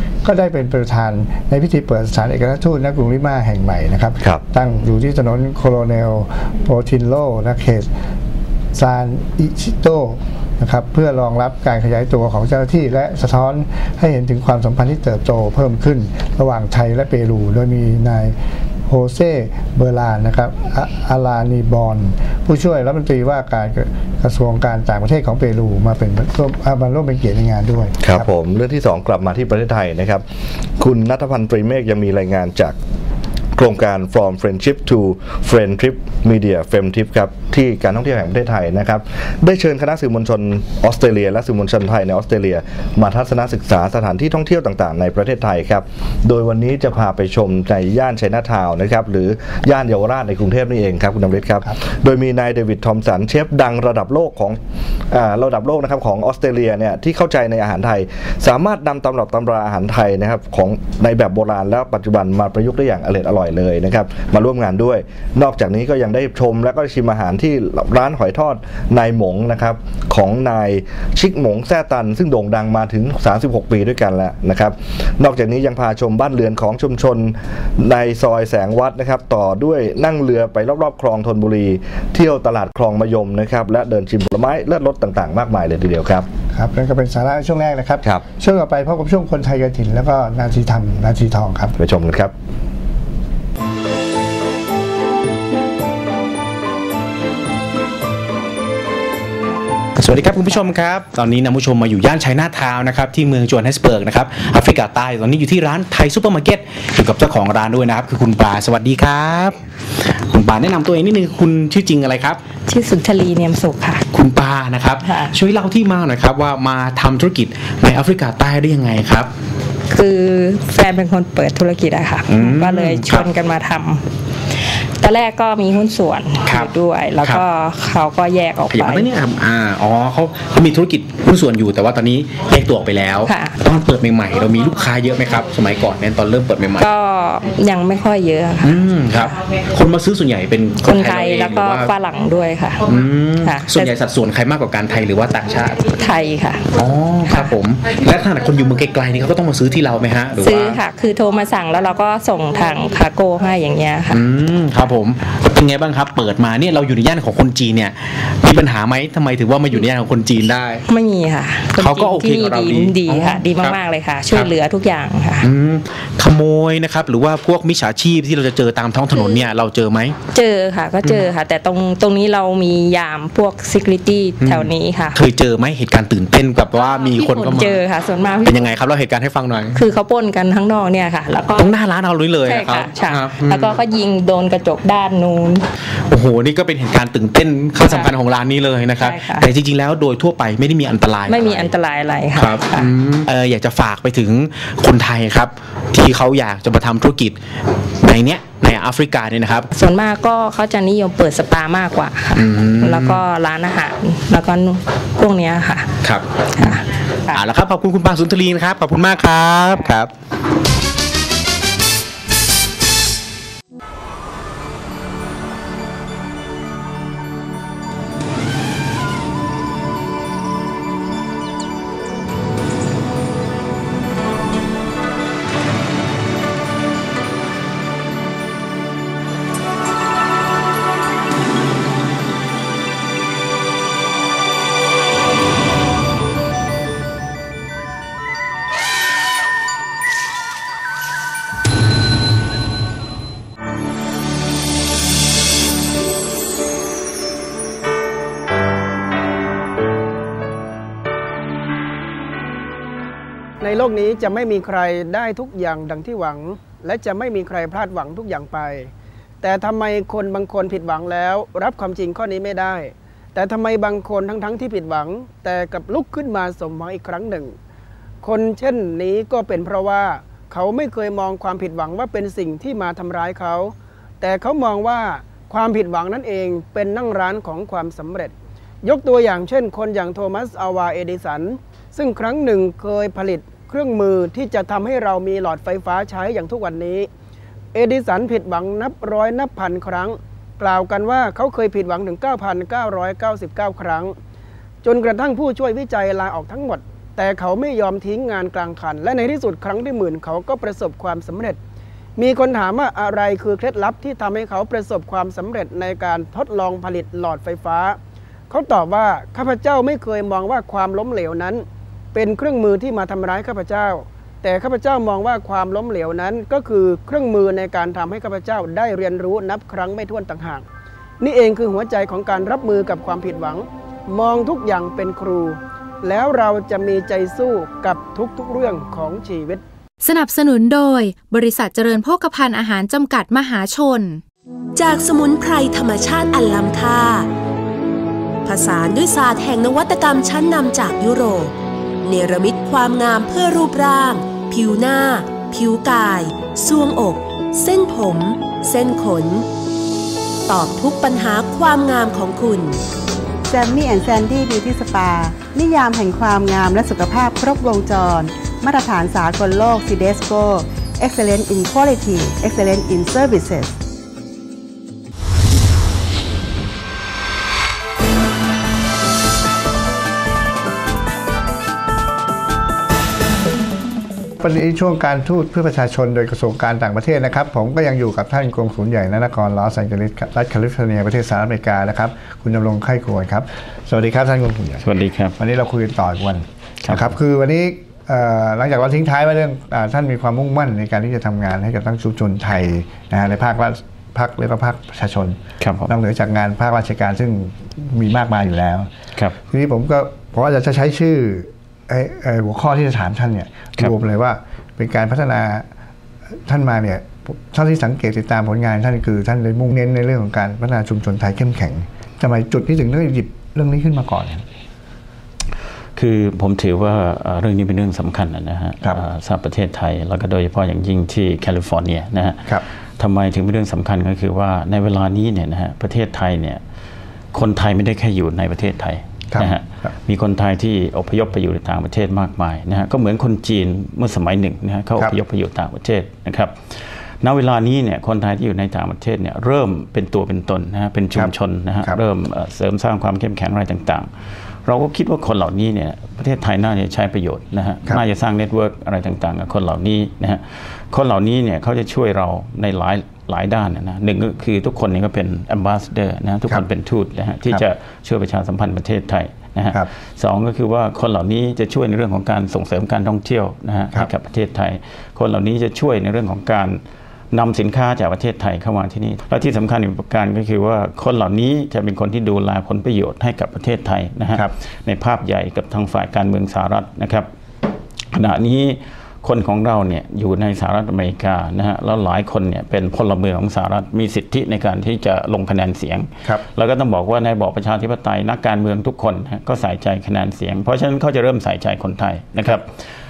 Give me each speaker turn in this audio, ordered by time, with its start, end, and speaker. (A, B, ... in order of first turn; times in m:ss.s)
0:00.2-0:07.9 A
0:08.8-0:18.4 A
0:18.9-0:28.3 A
0:28.0-0:30.2 B
0:30.8-0:32.8 B
0:33.6-0:54.6 B
0:55.1-1:26.3 B
1:26.5-1:31.8 A
1:31.8-1:32.3 B
1:40.0-1:49.5 C
1:50.2-1:52.4 C
1:52.7-1:54.1 D
1:54.2-1:59.3 C
1:54.9-1:55.5 D
1:59.9-2:09.2 D
2:02.4-2:03.2 C
2:08.8-2:13.1 C
2:13.2-2:13.7 D
2:13.7-2:16.7 C
2:16.7-2:19.4 D
2:18.6-2:21.8 C
2:20.7-2:24.0 D
2:23.1-2:25.8 C
2:25.9-2:27.7 D
2:26.8-2:30.7 C
2:30.4-2:34.3 D
2:34.4-2:40.8 C
2:40.8-2:45.6 D
2:42.7-2:43.7 C
2:45.5-2:50.1 C
2:49.1-2:49.5 D
2:50.3-2:55.3 D
2:55.3-2:57.8 C
2:56.7-2:58.9 D
2:58.5-2:59.8 C
2:59.7-3:05.7 D
3:01.6-3:03.3 C
3:06.2-3:11.7 C
3:07.8-3:08.2 D
3:09.0-3:09.5 D
3:11.2-3:13.0 D
3:12.5-3:12.8 C
3:13.3-3:17.3 C
3:18.0-3:19.6 C
3:19.7-3:27.5 D
3:22.6-3:23.1 C
3:26.1-3:26.4 C
3:27.6-3:29.2 C
3:29.6-3:30.1 D
4:13.6-4:18.9 E
4:19.4-4:27.5 E
4:28.2-4:47.1 E
4:47.7-4:54.2 E
4:54.8-5:01.6 E
5:02.2-5:08.0 E
5:08.5-5:20.6 E
5:21.2-5:29.6 E
5:30.0-5:34.2 F
5:34.8-5:37.3 G
5:38.4-5:49.5 G
5:50.5-5:52.8 G
5:53.5-6:03.8 H
6:14.4-6:38.9 A
6:24.8-6:25.4 I
6:26.8-6:27.1 I
6:35.6-6:35.9 I
6:39.4-6:45.6 A
6:46.5-6:54.4 A
6:56.0-7:06.6 I
7:07.3-7:24.1 I
7:09.3-7:09.9 A
7:24.6-7:46.8 I
7:47.3-7:57.3 I
7:58.1-8:12.7 I